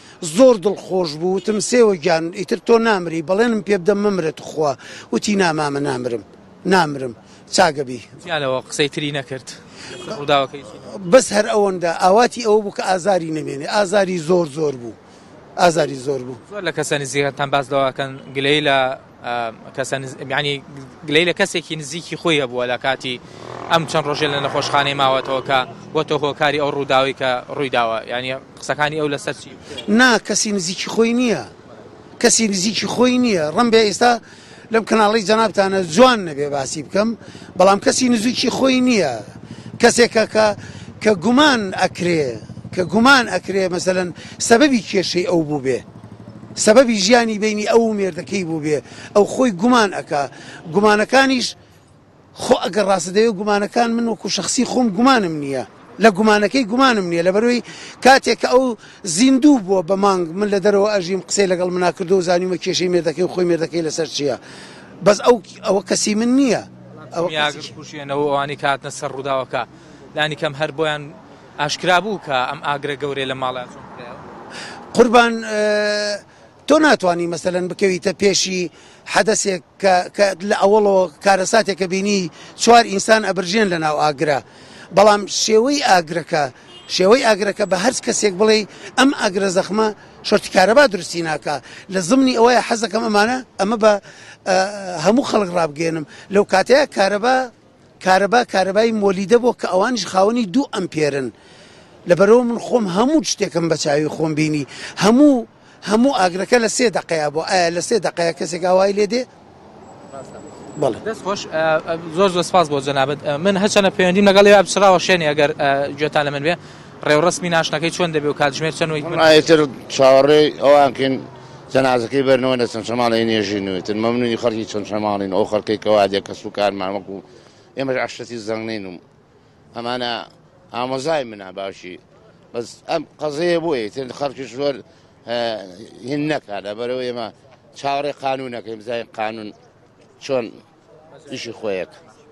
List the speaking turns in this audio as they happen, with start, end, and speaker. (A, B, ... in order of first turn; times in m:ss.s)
0:00.2-0:08.1 A
0:08.2-0:10.8 B
0:10.8-0:15.0 A
0:15.6-0:16.4 A
0:16.5-0:29.8 B
0:29.9-0:31.5 A
0:32.2-0:39.2 A
0:39.8-0:45.8 A
0:46.6-0:51.5 A
0:52.3-1:04.4 A
1:05.0-1:07.7 A
1:07.0-1:14.2 B
1:14.9-1:41.3 A
1:42.0-1:49.3 A
1:50.8-1:51.0 A
1:51.0-1:59.5 B
1:59.0-2:07.2 C
2:07.8-2:09.0 C
2:09.7-2:12.0 C
2:12.5-2:19.5 C
2:20.2-2:20.5 C
2:21.3-2:21.9 C